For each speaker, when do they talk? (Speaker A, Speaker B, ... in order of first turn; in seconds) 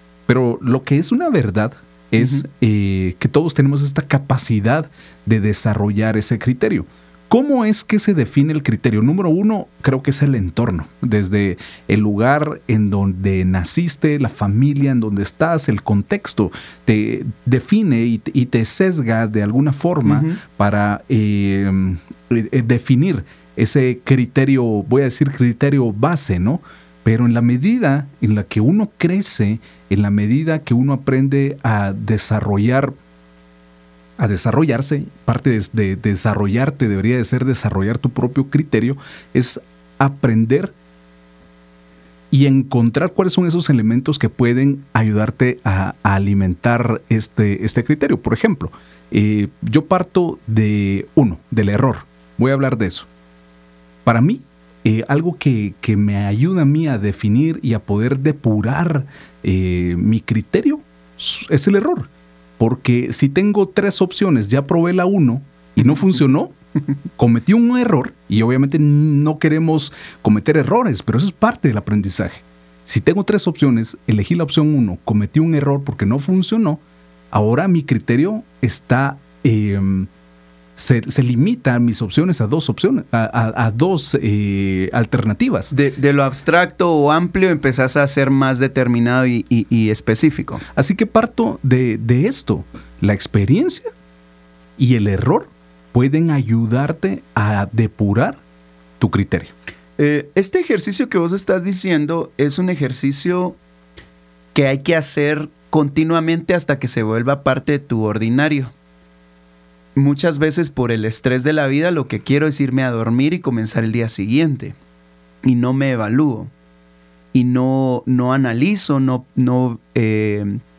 Speaker A: 0.3-33.0, 34.2-40.8, 42.3-53.1, 54.0-66.5, 67.2-80.1, 80.8-85.7, 90.8-93.9, 94.8-98.4, 99.0-99.5
Speaker B: 20.1-20.4, 85.7-90.6, 100.0-103.6, 104.5-108.7, 110.0-114.8, 115.4-116.5, 117.3-120.6